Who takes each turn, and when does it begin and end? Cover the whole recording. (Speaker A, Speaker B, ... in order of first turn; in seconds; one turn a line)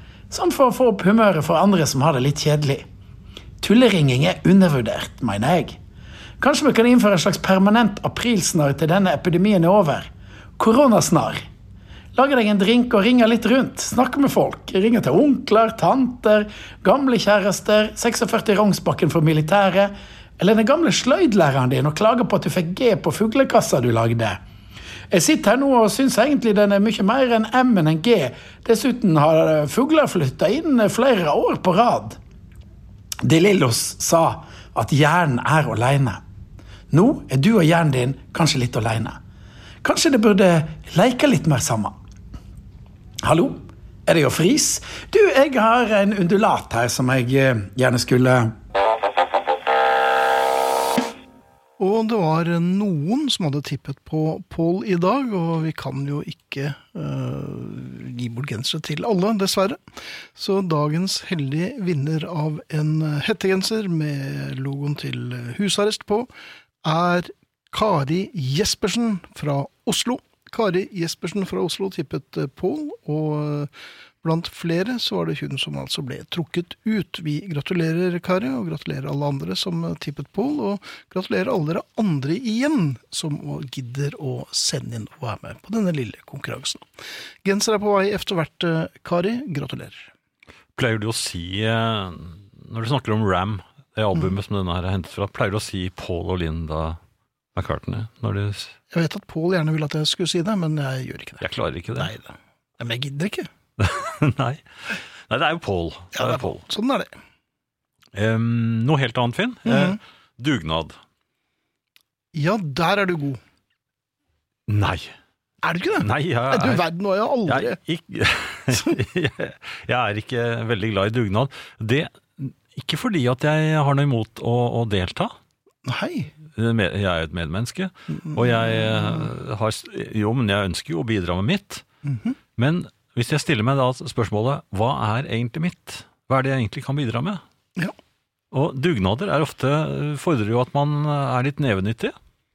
Speaker A: 0.3-2.9
Speaker A: 3.6-5.8
Speaker A: 6.4-11.5
Speaker A: 12.2-24.4
Speaker A: 25.1-32.2
Speaker A: 33.2-36.2
Speaker A: 36.9-39.2
Speaker A: 39.8-42.0
Speaker A: 43.2-48.5
Speaker B: 51.8-59.8
Speaker B: 60.4-66.3
Speaker B: 66.8-73.7
Speaker B: 74.2-86.9
Speaker B: 87.4-90.1
Speaker C: 90.8-97.0
Speaker C: 97.5-98.8
Speaker B: 98.9-103.5
Speaker C: 101.4-102.1
Speaker C: 103.8-104.6
Speaker C: 105.3-106.6
Speaker B: 106.1-107.1
Speaker C: 108.1-111.0
Speaker B: 109.7-110.0
Speaker B: 112.3-113.4
Speaker C: 114.7-115.1
Speaker B: 115.6-117.8
Speaker C: 116.0-116.9
Speaker C: 117.5-125.3
Speaker B: 125.8-126.3
Speaker C: 126.5-131.8
Speaker B: 128.1-129.3
Speaker B: 132.0-132.4
Speaker C: 132.6-137.4
Speaker C: 138.5-142.2